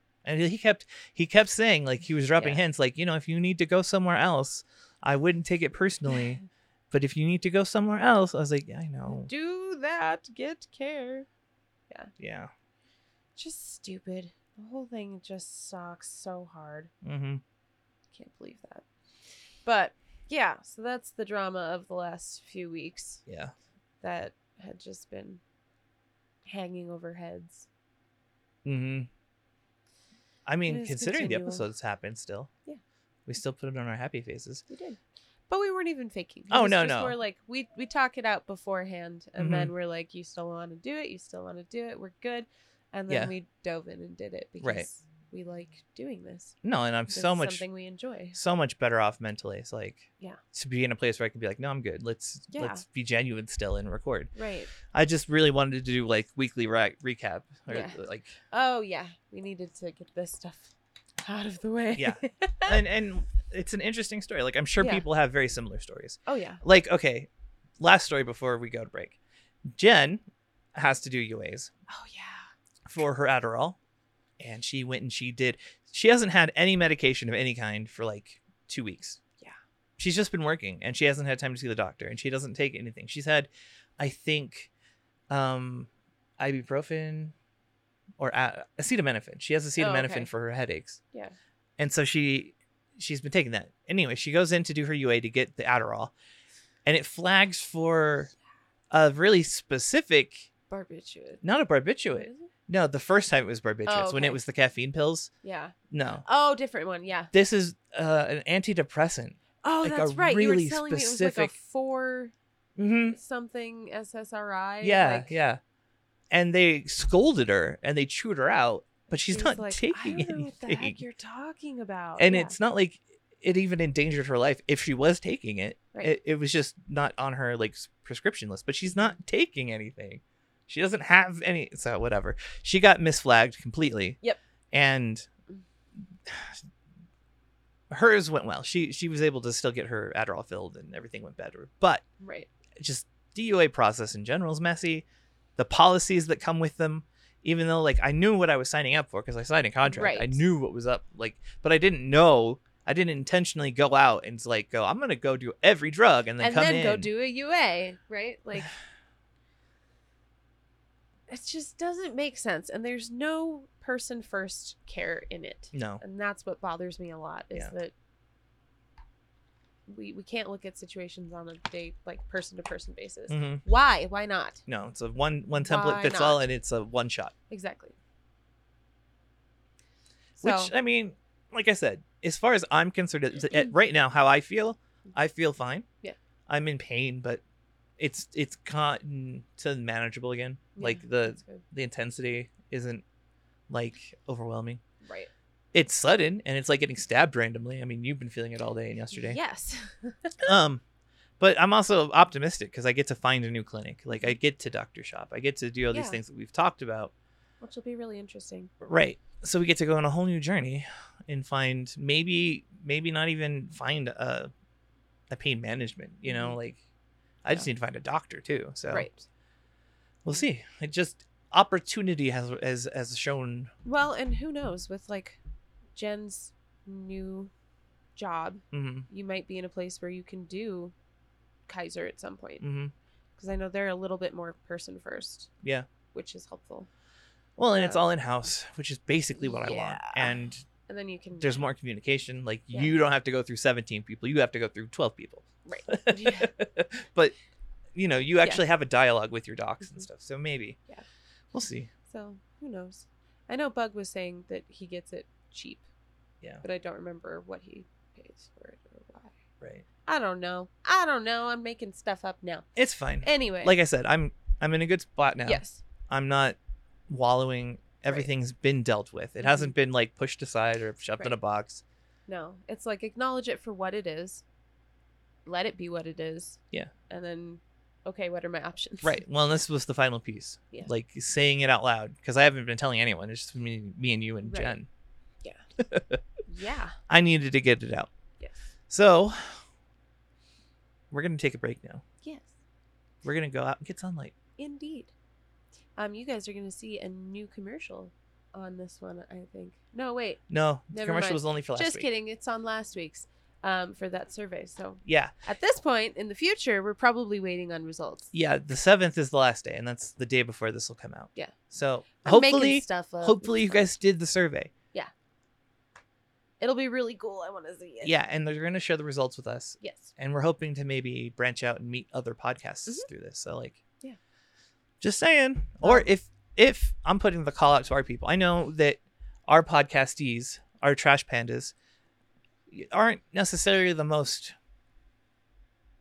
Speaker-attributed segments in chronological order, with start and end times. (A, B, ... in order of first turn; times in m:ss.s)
0:00.2-0:09.3 A
0:02.4-0:02.6 B
0:09.1-0:11.3 B
0:12.2-0:12.5 A
0:13.4-0:16.9 B
0:17.0-0:17.4 A
0:18.1-0:18.8 B
0:19.6-0:23.2 B
0:23.3-0:23.5 A
0:24.0-0:25.4 B
0:26.4-0:27.7 B
0:28.6-0:29.1 A
0:30.4-0:32.5 A
0:30.7-0:31.6 B
0:33.3-0:34.6 A
0:34.7-0:46.6 B
0:36.5-0:37.2 A
0:39.4-0:39.7 A
0:44.6-0:44.9 A
0:46.6-0:47.6 A
0:47.1-0:48.4 B
0:48.3-0:54.3 A
0:52.5-0:52.8 B
0:54.3-0:54.7 B
0:54.8-0:58.4 A
0:57.7-1:02.8 B
1:01.9-1:10.2 A
1:04.8-1:05.0 B
1:06.2-1:06.6 B
1:10.7-1:11.7 A
1:11.9-1:12.5 B
1:12.8-1:13.8 A
1:14.4-1:19.2 A
1:20.0-1:24.7 A
1:25.3-1:27.3 A
1:28.2-1:31.0 A
1:29.8-1:30.3 B
1:31.8-1:36.1 A
1:36.8-1:38.3 A
1:38.9-1:40.5 A
1:40.7-1:41.4 B
1:41.4-1:45.3 A
1:42.1-1:42.5 B
1:43.9-1:44.4 B
1:45.4-1:47.3 B
1:45.9-1:46.2 A
1:47.3-1:51.5 A
1:49.6-1:52.3 B
1:52.8-1:53.2 A
1:53.1-1:55.4 B
1:54.8-1:55.6 A
1:56.3-2:01.0 A
1:59.3-2:02.6 B
2:02.2-2:14.2 A
2:14.7-2:15.3 A
2:16.2-2:16.6 A
2:17.9-2:22.0 A
2:22.2-2:22.5 B
2:22.8-2:25.0 A
2:25.6-2:37.1 A
2:29.8-2:30.4 B
2:36.4-2:38.7 B
2:41.3-2:47.9 B
2:45.7-2:46.0 A
2:49.9-2:54.6 B
2:53.3-2:53.6 A
2:54.7-2:57.3 A
2:55.6-2:56.4 B
2:57.5-2:57.9 B
3:00.4-3:00.7 B
3:00.4-3:05.8 A
3:06.5-3:07.4 A
3:08.0-3:13.0 A
3:10.8-3:11.6 B
3:13.7-3:14.8 A
3:15.0-3:15.3 B
3:15.7-3:19.4 A
3:19.1-3:20.5 B
3:20.4-3:20.8 A
3:21.4-3:27.1 A
3:25.9-3:26.2 B
3:27.6-3:28.7 B
3:28.8-3:34.5 A
3:35.3-3:36.8 A
3:36.2-3:36.6 B
3:37.4-3:39.1 A
3:38.9-3:39.3 B
3:40.2-3:43.7 A
3:43.8-3:45.4 B
3:46.0-3:47.5 B
3:48.2-3:50.9 B
3:48.7-3:49.1 A
3:51.7-3:52.6 B
3:52.6-3:52.9 A
3:53.4-3:55.5 B
3:56.1-3:56.9 B
3:57.6-4:00.7 A
3:57.7-3:58.0 B
3:59.4-4:01.6 B
4:01.4-4:07.3 A
4:05.6-4:06.5 B
4:07.9-4:10.8 A
4:11.5-4:11.9 A
4:12.1-4:15.8 B
4:16.6-4:19.4 B
4:20.0-4:22.6 B
4:22.8-4:26.6 A
4:23.2-4:23.8 B
4:25.4-4:25.8 B
4:27.1-4:31.8 A
4:29.4-4:29.7 B
4:32.3-4:34.4 B
4:35.4-4:39.2 B
4:39.0-4:44.9 A
4:44.4-4:44.8 B
4:45.8-4:46.2 A
4:46.4-4:47.0 B
4:47.1-4:48.1 A
4:48.9-4:49.6 A
4:51.1-4:52.0 A
4:52.2-4:52.5 B
4:53.2-4:54.4 A
4:54.6-4:55.1 B
4:56.0-5:08.3 B
5:00.5-5:02.0 A
5:05.0-5:05.3 A
5:08.3-5:14.7 A
5:12.2-5:13.9 B
5:16.6-5:18.1 B
5:18.0-5:23.8 A
5:19.8-5:20.1 B
5:25.0-5:31.7 A
5:25.8-5:26.1 B
5:32.7-5:34.5 A